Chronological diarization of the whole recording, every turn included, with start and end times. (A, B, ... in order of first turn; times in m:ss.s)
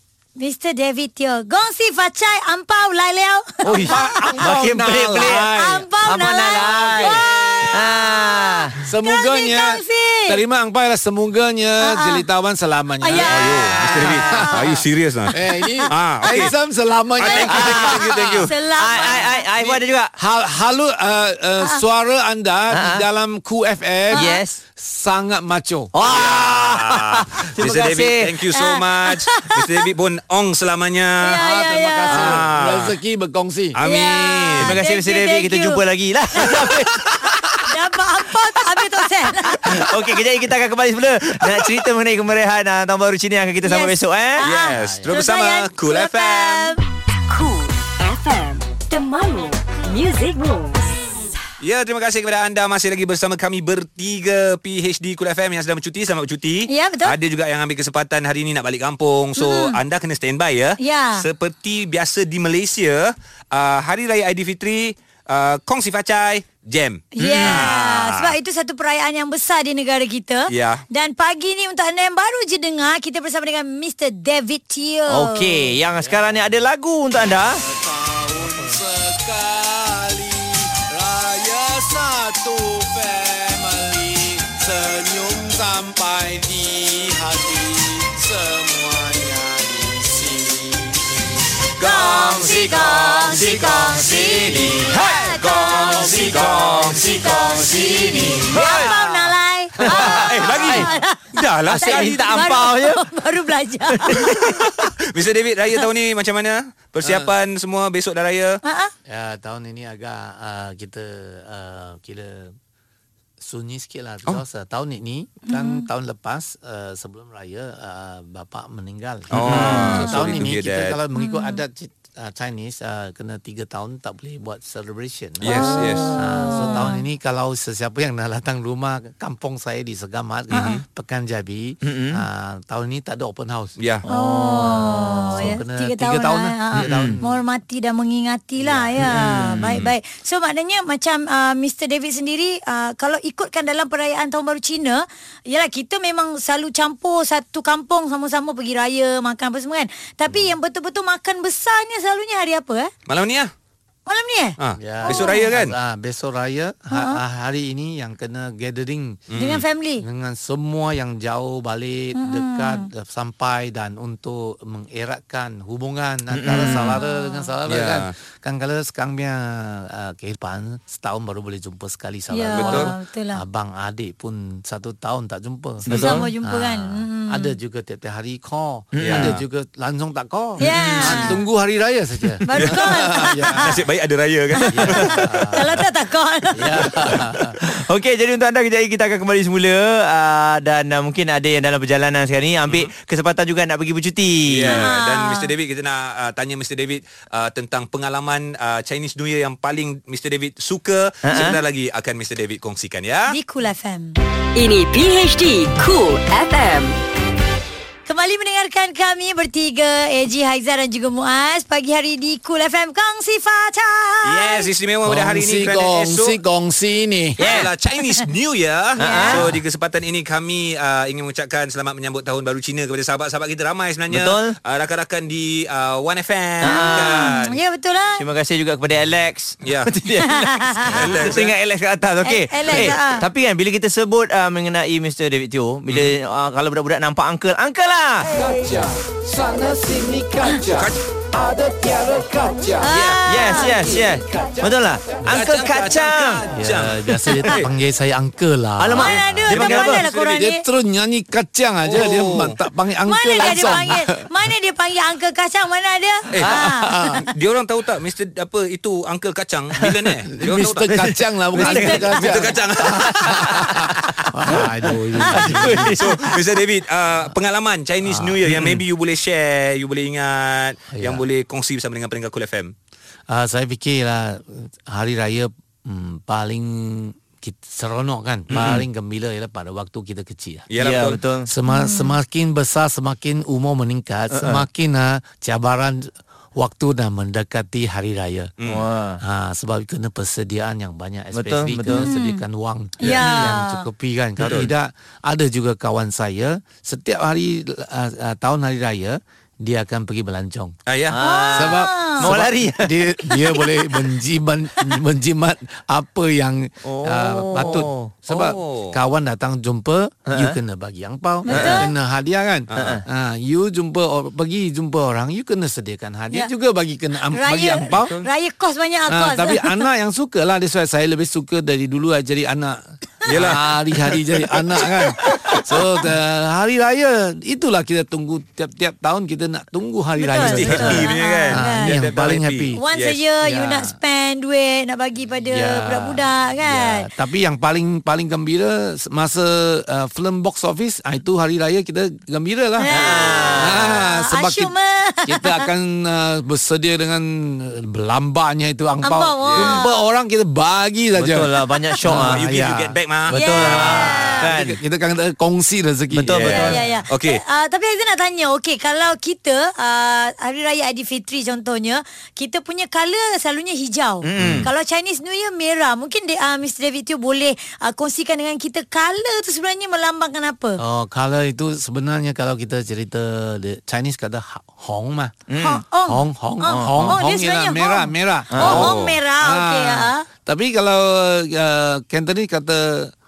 0:00.4-0:04.5 A
0:03.6-0:07.9 B
0:03.7-0:05.5 C
0:05.2-0:10.4 A
0:06.0-0:08.8 C
0:08.8-0:18.5 B
0:11.8-0:12.2 A
0:13.0-0:14.7 A
0:13.2-0:15.4 D
0:15.9-0:16.5 A
0:15.9-0:16.5 D
0:17.2-0:18.5 D
0:17.4-0:18.0 C
0:18.5-0:19.5 A
0:18.8-0:20.1 C
0:19.6-0:26.4 B
0:22.7-0:23.0 C
0:24.1-0:24.6 C
0:24.1-0:24.4 A
0:25.9-0:28.3 C
0:26.1-0:31.4 D
0:28.6-0:29.6 A
0:31.2-0:32.3 A
0:31.4-0:33.8 B
0:32.1-0:33.0 D
0:33.8-0:34.8 D
0:33.8-0:35.8 A
0:34.6-0:37.6 C
0:36.4-0:36.7 A
0:37.6-0:39.7 A
0:39.5-0:44.4 C
0:43.6-0:46.8 A
0:44.4-0:46.8 D
0:44.7-0:45.1 B
0:47.3-0:50.9 E
0:51.6-1:08.3 D
0:56.7-0:57.2 A
0:59.4-0:59.8 A
1:00.8-1:01.2 A
1:07.2-1:15.7 A
1:10.5-1:10.8 D
1:15.1-1:17.6 C
1:16.0-1:16.4 B
1:17.6-1:39.3 B
1:31.8-1:36.5 A
1:37.2-1:44.4 A
1:38.5-1:38.9 C
1:39.8-1:40.3 B
1:39.8-1:40.9 C
1:40.0-1:42.5 D
1:41.7-1:43.0 C
1:44.0-1:44.6 C
1:44.2-1:48.6 D
1:47.0-1:47.3 B
1:48.6-1:48.9 A
1:49.1-1:52.6 B
1:53.4-2:13.8 B
1:55.5-1:55.8 A
1:59.3-2:01.0 D
1:59.5-1:59.9 C
1:59.7-2:00.1 A
2:01.2-2:01.6 A
2:05.4-2:06.2 D
2:05.5-2:07.0 A
2:10.5-2:10.8 A
2:10.5-2:10.8 D
2:11.8-2:12.2 C
2:13.8-2:14.0 D
2:14.1-2:15.5 C
2:14.1-2:32.9 A
2:14.6-2:17.4 B
2:16.8-2:17.2 C
2:18.6-2:19.7 B
2:19.1-2:19.7 C
2:33.1-2:33.5 D
2:34.1-2:35.4 A
2:34.6-2:35.7 D
2:34.8-2:39.4 B
2:36.9-2:37.2 A
2:39.3-2:39.6 D
2:39.4-2:40.0 A
2:40.0-3:03.8 B
2:42.2-2:42.9 A
2:46.3-2:47.0 C
2:46.5-2:47.5 A
2:47.7-2:48.1 D
2:52.3-2:53.4 A
2:52.5-2:52.9 D
2:55.8-2:56.2 C
2:55.9-2:56.2 D
2:55.9-2:57.5 A
2:59.0-2:59.4 C
2:59.0-2:59.4 D
3:00.6-3:01.4 A
3:00.6-3:01.3 D
3:02.5-3:03.6 A
3:03.5-3:05.6 D
3:04.6-3:06.9 A
3:04.7-3:05.7 B
3:06.6-3:07.6 B
3:07.7-3:14.9 C
3:12.7-3:12.9 D
3:14.5-3:23.4 D
3:14.7-3:15.5 A
3:21.3-3:21.6 C
3:23.3-3:24.1 A
3:24.6-3:27.0 E
3:28.1-3:34.7 A
3:34.2-3:36.4 D
3:35.0-3:37.4 B
3:37.4-3:37.7 A
3:37.4-3:47.6 D
3:39.0-3:39.4 A
3:39.0-3:39.5 C
3:44.1-3:44.5 C
3:46.6-3:47.3 C
3:46.6-3:48.2 A
3:48.2-3:58.3 C
3:49.6-3:49.9 D
3:50.2-3:51.2 A
3:50.9-3:51.5 D
3:52.2-3:53.2 A
3:55.9-3:56.1 D
3:58.3-4:04.9 B
4:02.8-4:03.8 A
4:03.3-4:06.4 C
4:05.3-4:07.7 D
4:06.6-4:14.2 B
4:08.8-4:10.0 C
4:09.0-4:10.6 A
4:09.6-4:10.1 D
4:11.8-4:12.6 D
4:13.1-4:17.2 A
4:16.4-4:17.2 B
4:17.2-4:24.3 D
4:20.3-4:25.9 B
4:21.7-4:23.9 C
4:24.5-4:26.4 C
4:25.4-4:32.7 D
4:28.0-4:28.8 B
4:30.9-4:31.2 B
4:33.3-4:40.7 B
4:38.5-4:38.8 D
4:38.6-4:38.8 C
4:40.7-4:41.2 D
4:40.8-4:41.5 C
4:41.5-4:48.5 B
4:41.7-4:42.2 A
4:44.3-4:44.6 C
4:48.7-4:49.2 C
4:49.2-5:00.8 B
4:51.3-4:52.1 C
4:52.1-4:52.4 A
4:53.0-4:53.8 A
4:54.4-4:54.7 D
5:00.9-5:01.2 D
5:01.1-5:03.0 C
5:01.2-5:02.2 A
5:01.5-5:18.2 B
5:06.8-5:08.1 C
5:07.6-5:09.0 D
5:10.3-5:10.6 C
5:11.4-5:11.9 A
5:11.5-5:11.9 C
5:12.7-5:13.0 D
5:12.8-5:13.0 C
5:17.3-5:19.8 A
5:18.0-5:18.3 D
5:19.1-5:32.8 B
5:23.3-5:25.6 D
5:30.2-5:32.0 A
5:30.4-5:33.2 D
5:32.8-5:37.1 A
5:33.4-5:33.9 B
5:35.5-5:44.7 B
5:42.8-5:45.7 A
5:42.9-5:43.9 C
5:45.3-5:53.0 B
5:49.0-5:49.9 A
5:49.5-5:49.8 D
5:51.2-5:52.4 C
5:52.0-5:54.4 D
5:53.3-5:54.5 A
5:53.3-5:54.8 C
5:53.6-5:56.9 B
5:56.1-5:56.8 C
5:56.5-6:10.8 A
5:57.1-5:57.4 D
6:04.2-6:04.7 C
6:04.4-6:04.6 D
6:10.8-6:15.4 B
6:15.5-6:15.8 C
6:15.6-6:20.2 A
6:16.0-6:23.1 B
6:16.7-6:17.1 C
6:18.5-6:18.8 C
6:18.6-6:19.2 D